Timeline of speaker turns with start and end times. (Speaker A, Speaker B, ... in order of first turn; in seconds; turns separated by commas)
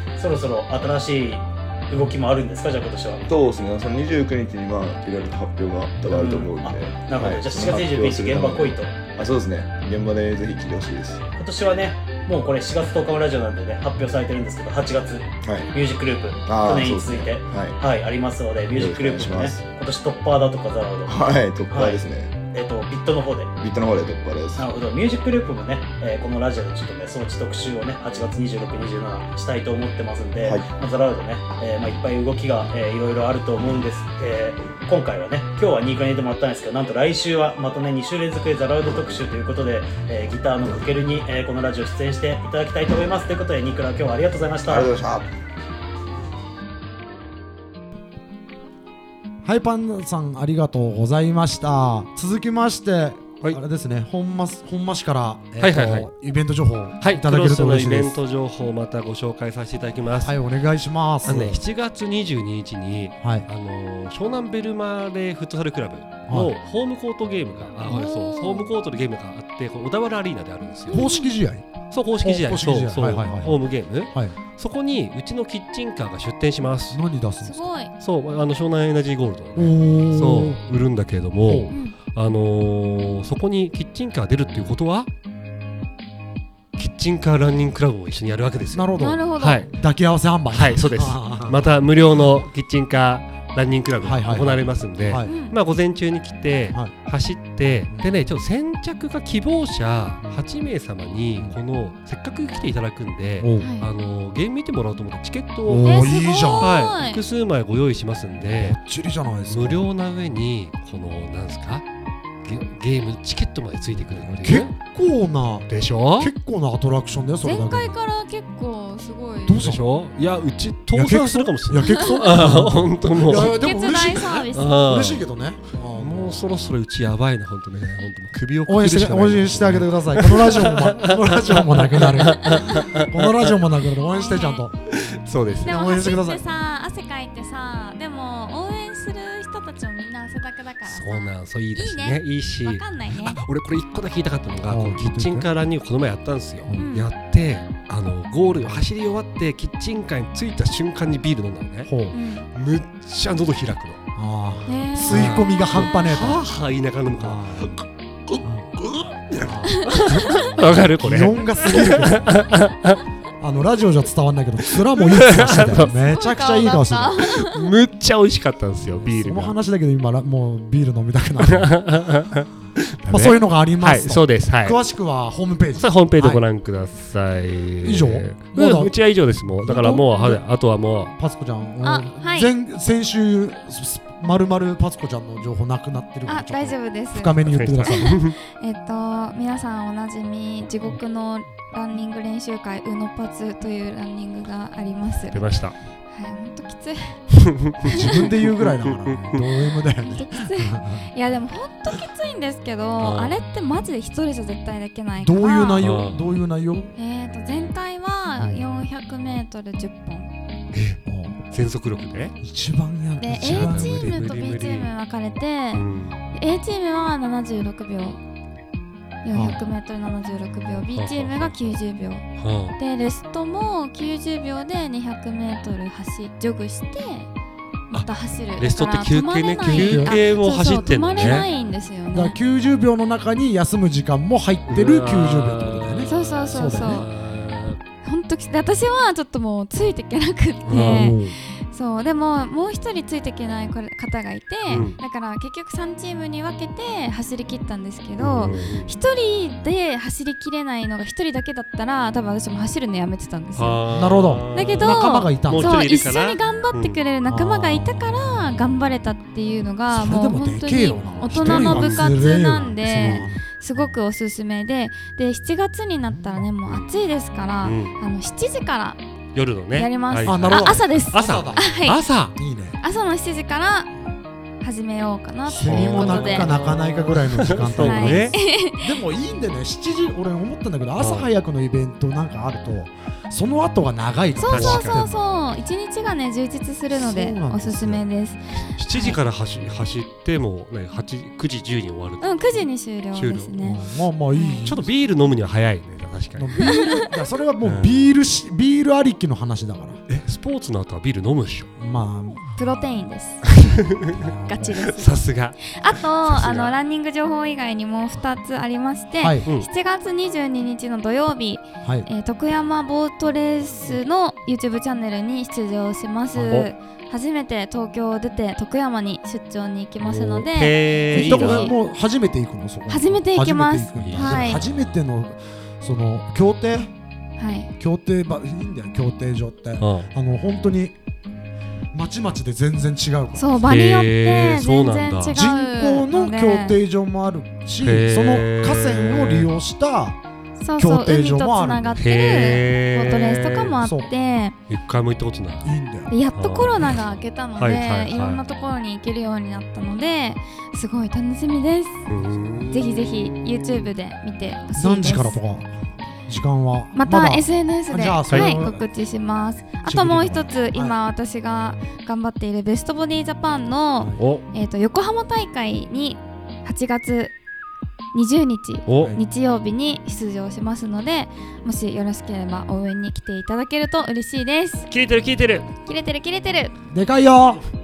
Speaker A: 0.2-3.2, Speaker B: 3.3-11.3, Speaker A: 6.1-9.0, Speaker A: 11.4-22.0, Speaker B: 15.4-15.7, Speaker B: 16.5-17.8, Speaker B: 18.7-19.7, Speaker B: 21.1-22.4, Speaker A: 22.5-23.5, Speaker B: 23.6-24.7, Speaker A: 24.6-44.9, Speaker B: 30.4-30.7, Speaker B: 44.7-45.3, Speaker C: 49.4-58.2, Speaker D: 55.6-56.1, Speaker D: 57.0-60.4, Speaker C: 60.2-61.6, Speaker D: 61.2-71.1, Speaker C: 63.2-63.5, Speaker C: 66.3-66.5, Speaker E: 67.9-68.7, Speaker C: 70.9-71.7, Speaker E: 70.9-71.3, Speaker D: 71.9-77.0, Speaker C: 72.2-74.4, Speaker C: 76.9-77.7, Speaker E: 77.4-77.9, Speaker D: 78.0-85.1, Speaker C: 79.6-80.6, Speaker C: 81.4-81.7, Speaker E: 81.7-82.0, Speaker D: 86.8-89.7, Speaker C: 88.7-91.7, Speaker E: 89.0-89.7, Speaker D: 90.5-108.8, Speaker C: 94.0-95.3, Speaker E: 95.2-95.6, Speaker C: 103.4-103.7, Speaker E: 103.6-103.9, Speaker C: 105.7-106.9, Speaker E: 105.8-107.2, Speaker C: 108.4-109.8, Speaker D: 109.5-111.8, Speaker D: 112.4-114.7, Speaker C: 114.0-117.9, Speaker D: 115.7-116.3, Speaker E: 117.4-119.6, Speaker C: 119.5-119.8, Speaker D: 119.5-123.5, Speaker C: 120.9-126.4, Speaker E: 123.3-124.8, Speaker D: 124.5-125.3, Speaker D: 126.0-133.6, Speaker C: 128.7-134.8, Speaker E: 134.1-134.6, Speaker D: 134.9-135.8, Speaker C: 135.6-136.4, Speaker E: 135.6-143.4, Speaker D: 140.8-151.9, Speaker C: 144.7-145.5, Speaker E: 146.8-147.1, Speaker C: 151.9-152.2, Speaker E: 152.1-152.5, Speaker D: 152.6-154.0, Speaker C: 154.2-156.4, Speaker E: 154.7-155.4, Speaker D: 155.1-163.0, Speaker C: 157.1-157.7, Speaker C: 158.4-158.7, Speaker C: 159.4-162.4, Speaker E: 159.7-160.4, Speaker C: 163.4-167.3, Speaker D: 165.0-165.9, Speaker E: 165.5-167.7, Speaker D: 167.4-169.6, Speaker C: 168.9-171.9, Speaker D: 171.4-174.8, Speaker C: 173.1-176.4, Speaker D: 175.8-181.2, Speaker C: 177.8-178.9, Speaker C: 179.7-180.4, Speaker E: 179.7-180.1, Speaker C: 181.2-188.2, Speaker E: 181.8-182.5, Speaker E: 186.3-195.4, Speaker D: 187.5-188.4, Speaker D: 195.3-195.8, Speaker E: 196.1-197.2, Speaker D: 197.5-199.4, Speaker C: 197.9-201.1, Speaker E: 200.0-205.8, Speaker D: 203.0-203.3, Speaker C: 205.2-206.9, Speaker D: 205.8-206.3, Speaker E: 207.0-210.3, Speaker D: 210.7-212.4, Speaker C: 211.1-211.4, Speaker C: 212.4-214.3, Speaker E: 213.2-215.8, Speaker D: 213.4-214.9, Speaker D: 215.7-216.2, Speaker E: 216.3-218.2, Speaker E: 219.2-222.2, Speaker C: 219.3-219.6, Speaker D: 220.9-221.8, Speaker D: 222.4-222.8, Speaker E: 222.8-227.3, Speaker E: 227.9-232.4, Speaker D: 227.9-231.5, Speaker C: 229.6-230.2, Speaker C: 231.2-231.5, Speaker C: 232.1-237.1, Speaker D: 234.7-237.8, Speaker E: 236.1-237.1, Speaker E: 238.0-253.8, Speaker D: 240.7-241.3, Speaker C: 240.7-241.4, Speaker D: 244.7-245.0, Speaker D: 248.2-248.9, Speaker D: 253.6-257.0, Speaker C: 253.9-255.8, Speaker E: 254.5-269.0, Speaker C: 257.3-258.4, Speaker C: 259.9-263.4, Speaker D: 261.3-262.2, Speaker D: 267.6-267.9, Speaker D: 269.3-272.4, Speaker E: 269.8-272.0, Speaker C: 270.2-271.8, Speaker C: 272.3-272.8, Speaker E: 272.8-273.9, Speaker E: 274.6-276.5, Speaker C: 275.5-285.2, Speaker D: 275.6-278.4, Speaker E: 277.8-278.9, Speaker D: 281.0-281.3, Speaker E: 284.4-289.2, Speaker D: 284.5-285.0, Speaker C: 286.9-288.1, Speaker D: 288.7-293.6, Speaker E: 292.2-293.8, Speaker C: 293.6-294.9, Speaker E: 294.3-294.6, Speaker D: 294.6-296.7, Speaker C: 296.4-300.0, Speaker E: 296.6-296.9, Speaker D: 297.6-298.1, Speaker D: 300.1-301.7, Speaker C: 301.8-302.4, Speaker E: 302.6-303.5, Speaker D: 303.5-306.8, Speaker C: 304.1-304.8, Speaker E: 304.5-305.1, Speaker E: 305.7-321.8, Speaker C: 309.2-309.5, Speaker D: 316.4-316.7, Speaker D: 320.0-321.7, Speaker C: 321.1-326.9, Speaker E: 322.9-324.6, Speaker D: 324.0-325.0, Speaker E: 327.4-327.7, Speaker C: 327.8-330.9, Speaker D: 329.8-330.1, Speaker C: 331.9-333.6, Speaker E: 333.4-336.8, Speaker D: 333.7-335.5, Speaker C: 335.3-340.2, Speaker D: 337.8-339.5, Speaker E: 340.6-344.6, Speaker C: 340.8-342.0, Speaker D: 342.0-343.8, Speaker C: 343.8-344.1, Speaker D: 344.7-345.7, Speaker C: 345.6-346.1, Speaker E: 346.1-352.1, Speaker D: 346.4-348.4, Speaker D: 352.1-353.9, Speaker E: 352.7-355.4, Speaker C: 354.8-355.7, Speaker C: 356.3-358.9, Speaker E: 356.9-367.3, Speaker D: 358.3-358.6, Speaker C: 359.9-361.0, Speaker D: 364.2-364.4, Speaker E: 368.1-374.9, Speaker D: 368.9-369.2, Speaker C: 369.0-369.2, Speaker D: 374.9-375.7, Speaker E: 375.9-376.8, Speaker C: 376.9-377.6